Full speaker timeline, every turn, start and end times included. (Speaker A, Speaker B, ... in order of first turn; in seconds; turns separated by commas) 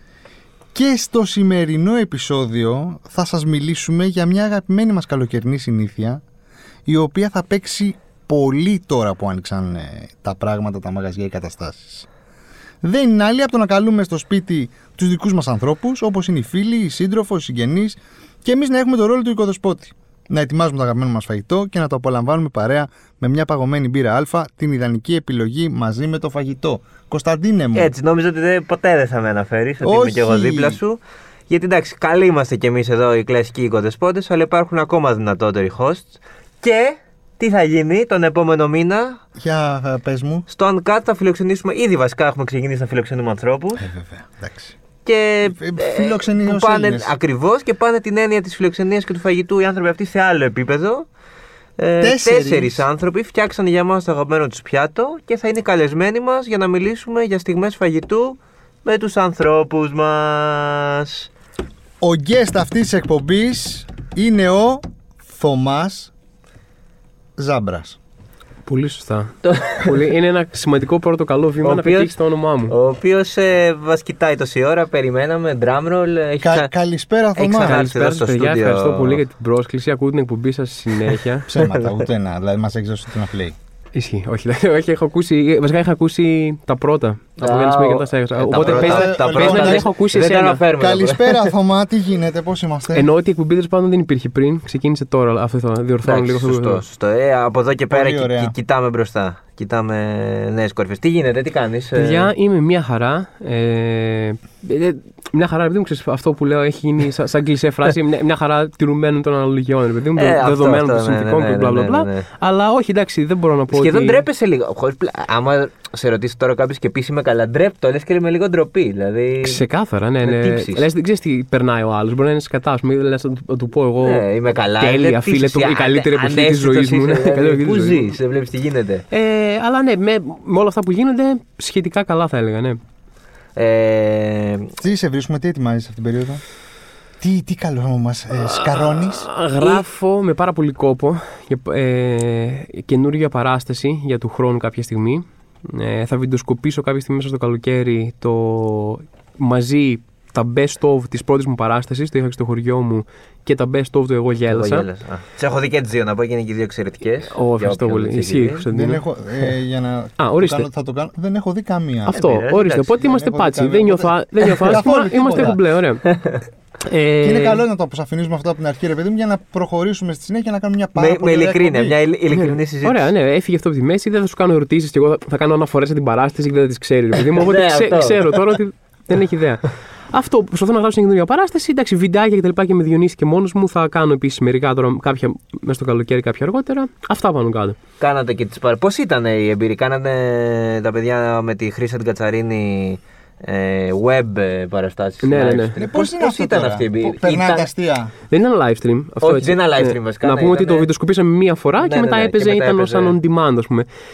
Speaker A: 0.7-6.2, Speaker A: 6.8-12.1, Speaker A: 12.8-27.9, Speaker B: 27.7-39.2, Speaker A: 29.8-30.8, Speaker A: 39.4-40.4, Speaker B: 40.5-43.9, Speaker A: 43.8-44.8, Speaker B: 45.0-51.0, Speaker A: 45.5-47.1, Speaker B: 51.8-61.3, Speaker A: 52.0-52.8, Speaker A: 62.0-66.1, Speaker A: 67.4-68.0, Speaker C: 68.7-72.7, Speaker B: 69.4-70.0, Speaker B: 71.6-72.2, Speaker B: 72.7-76.7, Speaker A: 76.4-77.8, Speaker B: 77.3-79.2, Speaker C: 77.5-81.5, Speaker B: 81.1-82.0, Speaker A: 81.5-83.5, Speaker C: 83.9-90.6, Speaker B: 87.4-91.5, Speaker A: 88.5-89.9, Speaker A: 90.8-93.1, Speaker C: 92.9-96.8, Speaker B: 96.0-102.3, Speaker A: 97.9-98.5, Speaker C: 101.9-114.2, Speaker B: 110.2-112.3, Speaker B: 113.7-119.6, Speaker C: 119.4-124.2, Speaker B: 120.2-120.9, Speaker B: 124.0-129.1, Speaker C: 124.8-128.1, Speaker C: 129.1-132.8, Speaker B: 133.6-134.7, Speaker A: 134.8-136.4, Speaker A: 137.2-139.3, Speaker C: 138.3-154.8, Speaker B: 154.5-158.6, Speaker C: 157.3-159.5, Speaker A: 158.7-162.4, Speaker C: 160.2-160.7, Speaker C: 162.1-166.1, Speaker B: 162.1-163.0, Speaker A: 162.9-165.6, Speaker B: 166.1-166.4, Speaker C: 166.8-167.6, Speaker A: 167.2-172.0, Speaker B: 170.9-173.1, Speaker C: 172.3-187.8, Speaker B: 177.2-178.6, Speaker B: 188.0-197.7, Speaker C: 195.2-195.7, Speaker A: 195.8-198.1, Speaker C: 198.3-203.9, Speaker B: 199.2-200.9, Speaker B: 201.8-203.2